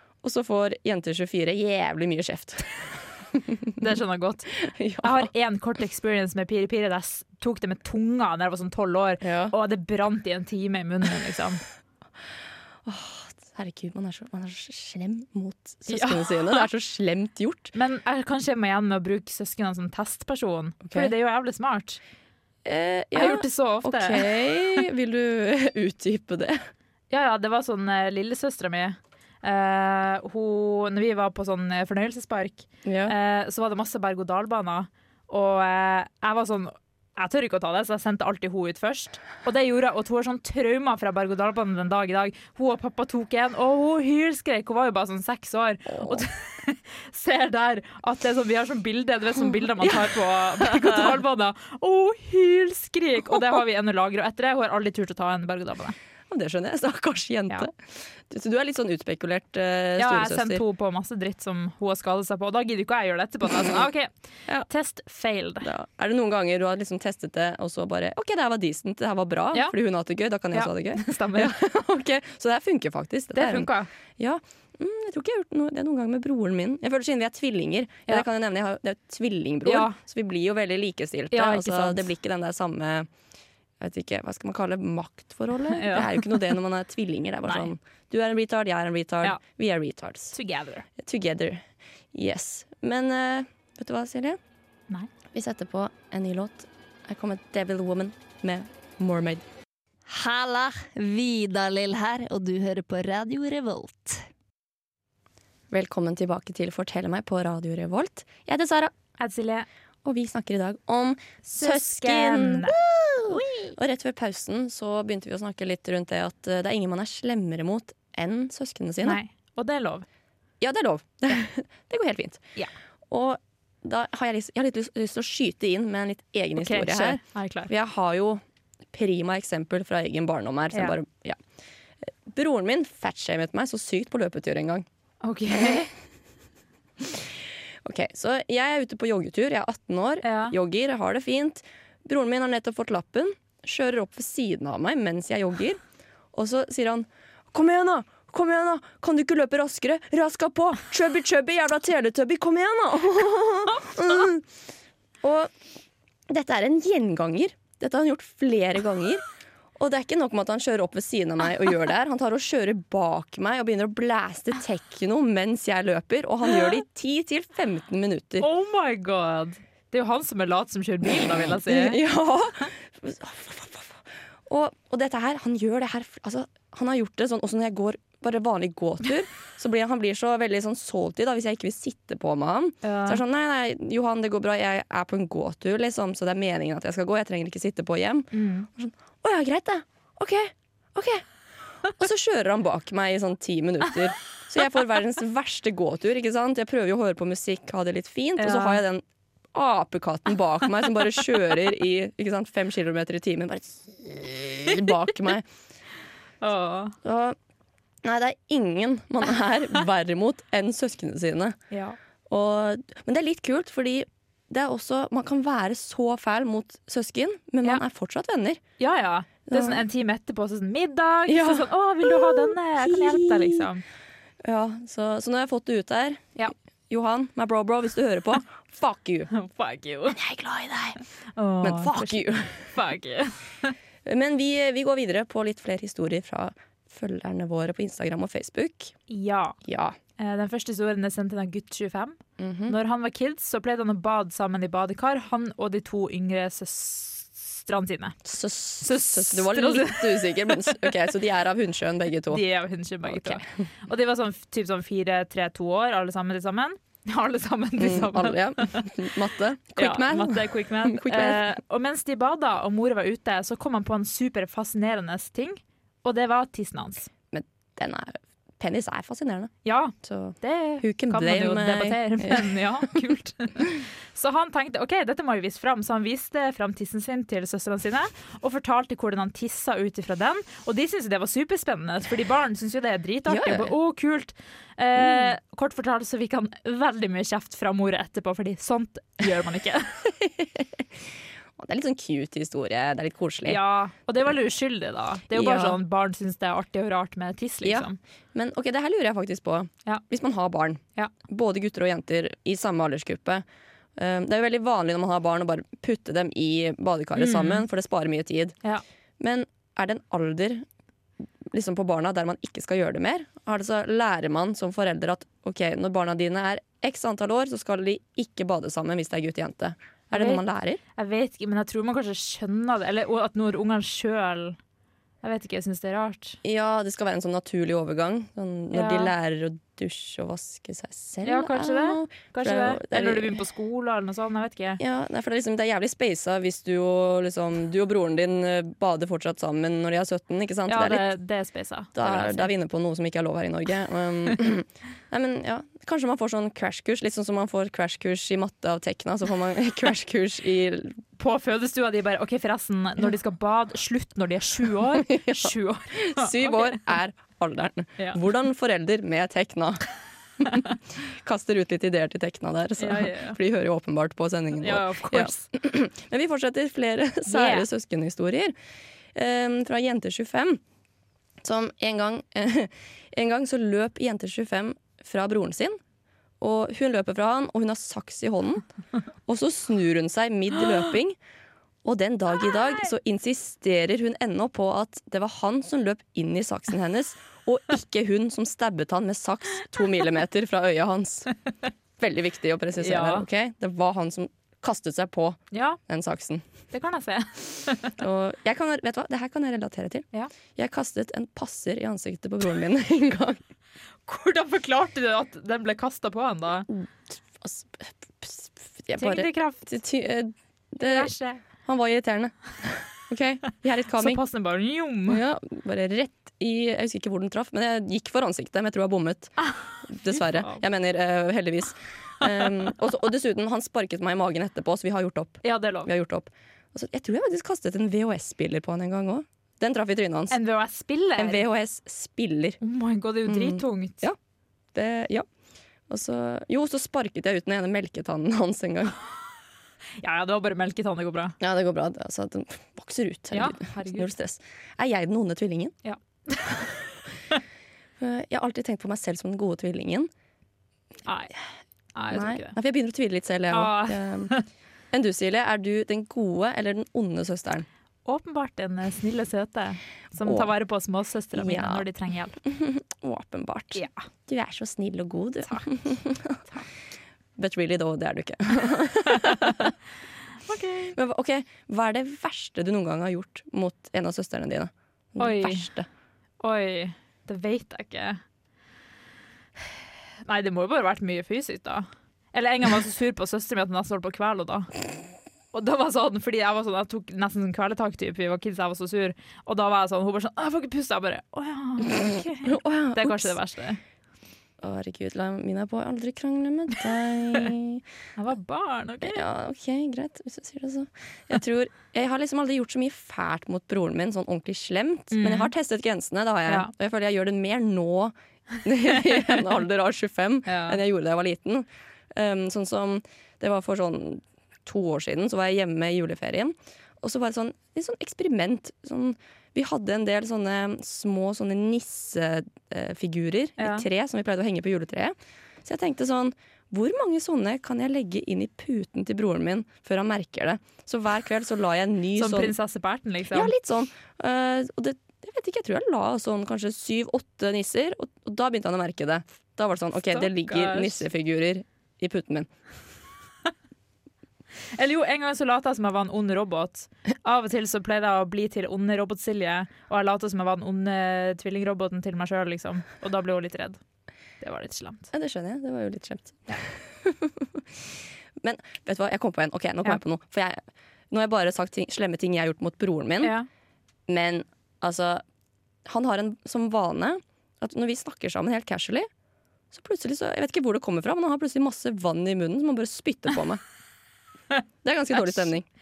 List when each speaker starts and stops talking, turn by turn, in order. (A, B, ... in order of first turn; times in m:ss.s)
0:00.2-0:03.7 A
0:03.8-0:11.6 B
0:04.6-0:05.3 A
0:09.2-0:09.5 A
0:12.8-0:17.7 A
0:15.9-0:16.6 B
0:17.7-0:22.0 B
0:20.8-0:21.1 A
0:22.6-0:26.6 A
0:23.1-0:24.5 B
0:27.1-0:56.0 B
0:32.8-0:33.1 A
0:45.9-0:46.2 A
0:49.8-0:51.1 A
0:56.3-1:00.6 A
1:00.0-1:04.1 B
1:04.6-1:05.7 B
1:05.6-1:23.1 A
1:10.5-1:11.6 B
1:13.3-1:13.9 B
1:19.6-1:20.0 B
1:21.3-1:22.0 B
1:23.8-1:30.3 A
1:25.7-1:26.4 B
1:30.3-1:30.8 B
1:31.0-1:34.4 A
1:35.3-1:39.4 A
1:40.1-1:44.2 C
1:45.7-1:48.9 A
1:49.2-1:49.7 B
1:50.0-1:59.2 A
1:51.4-1:52.7 B
1:59.0-2:00.0 B
2:00.6-2:02.4 A
2:03.1-2:11.4 A
2:06.6-2:07.7 B
2:12.2-2:14.8 A
2:15.2-2:15.9 B
2:15.5-2:15.8 A
2:17.0-2:17.3 A
2:17.8-2:25.8 A
2:20.2-2:20.6 B
2:26.3-2:34.5 A
2:35.2-2:35.5 A
2:36.3-2:39.2 A
2:39.8-2:48.5 A
2:48.4-2:52.0 B
2:51.1-3:11.3 A
3:02.8-3:03.2 B
3:08.3-3:08.7 B
3:11.8-3:25.5 A
3:18.4-3:18.8 B
3:26.4-3:27.0 B
3:27.0-3:27.4 A
3:28.0-3:31.6 A
3:31.7-3:32.0 B
3:32.3-3:38.6 A
3:38.8-3:43.8 B
3:39.5-3:39.8 A
3:41.3-3:43.7 A
3:44.4-3:49.3 A
3:49.3-3:50.2 B
3:50.1-3:51.0 A
3:51.4-3:53.7 B
3:51.6-3:52.7 A
3:54.0-3:58.9 A
3:59.1-3:59.6 B
3:59.6-4:00.0 A
4:00.2-4:08.2 B
4:02.4-4:02.8 A
4:08.2-4:12.4 A
4:08.8-4:10.8 B
4:12.3-4:18.9 B
4:13.1-4:13.5 A
4:17.8-4:21.5 A
4:19.8-4:27.1 B
4:27.3-4:32.6 A
4:29.6-4:50.0 B
4:43.2-4:43.7 A
4:45.0-4:45.3 A
4:50.2-4:50.8 A
4:51.6-4:53.6 A
4:53.4-4:58.0 B
4:55.3-4:55.8 A
4:57.6-5:03.4 A
5:04.0-5:08.6 A
5:07.2-5:07.6 B
5:09.2-5:10.6 A
5:11.5-5:20.8 A
5:20.1-5:20.4 B
5:21.0-5:24.6 B
5:25.2-5:26.4 B
5:26.4-5:33.4 A
5:28.7-5:29.1 B
5:31.2-5:34.8 B
5:34.8-5:41.1 A
5:40.7-5:42.5 B
5:41.9-5:51.0 A
5:51.2-5:56.8 B
5:54.8-5:59.9 A
6:00.4-6:08.5 A
6:02.8-6:03.4 B
6:04.6-6:05.4 B
6:07.2-6:07.7 B
6:09.1-6:10.6 A
6:11.4-6:15.8 A
6:16.4-6:18.6 A
6:19.2-6:21.2 A
6:21.8-6:31.3 A
6:32.0-6:36.4 A
6:32.8-6:33.2 B
6:35.5-6:35.8 B
6:36.7-6:37.9 B
6:38.0-6:43.4 A
6:44.1-6:46.7 B
6:46.7-6:51.1 A
6:49.0-6:49.6 B
6:50.8-6:51.4 B
6:51.6-6:54.2 A
6:54.0-6:55.2 B
6:55.1-7:10.4 A
7:00.1-7:00.6 B
7:05.4-7:05.9 B
7:10.3-7:11.4 B
7:11.2-7:12.6 A
7:12.6-7:14.0 B
7:13.2-7:14.2 A
7:14.7-7:15.3 A
7:15.9-7:19.0 A
7:20.0-7:21.4 B
7:21.4-7:25.7 A
7:23.3-7:24.1 B
7:25.8-7:26.7 B
7:28.0-7:30.1 A
7:31.0-7:31.3 B
7:31.9-7:32.5 B
7:32.1-7:34.3 A
7:33.5-7:34.4 B
7:34.9-7:37.7 A
7:38.0-7:42.4 B
7:40.2-7:40.5 A
7:41.3-7:41.8 A
7:42.4-7:46.4 A
7:43.7-7:44.0 B
7:47.4-7:49.7 A
7:50.5-7:51.0 B
7:50.9-7:55.9 A
7:55.2-7:55.7 B
7:56.4-7:58.2 B
8:00.2-8:04.7 B
8:05.5-8:13.8 B
8:12.4-8:13.4 A
8:14.6-8:17.8 A
8:18.2-8:19.2 B
8:19.0-8:52.5 A
8:25.1-8:25.5 B
8:26.5-8:26.7 B
8:30.4-8:30.8 B
8:43.6-8:43.8 B
8:52.1-8:53.5 B
8:53.3-9:02.5 A
9:00.1-9:01.0 B
9:04.8-9:13.8 B
9:14.4-9:15.1 B
9:15.1-9:17.8 A
9:18.4-9:23.4 A
9:23.2-9:23.5 B
9:24.1-9:25.2 A
9:25.8-9:29.1 A
9:29.7-9:33.6 A
9:34.8-9:35.6 A
9:35.2-9:35.4 B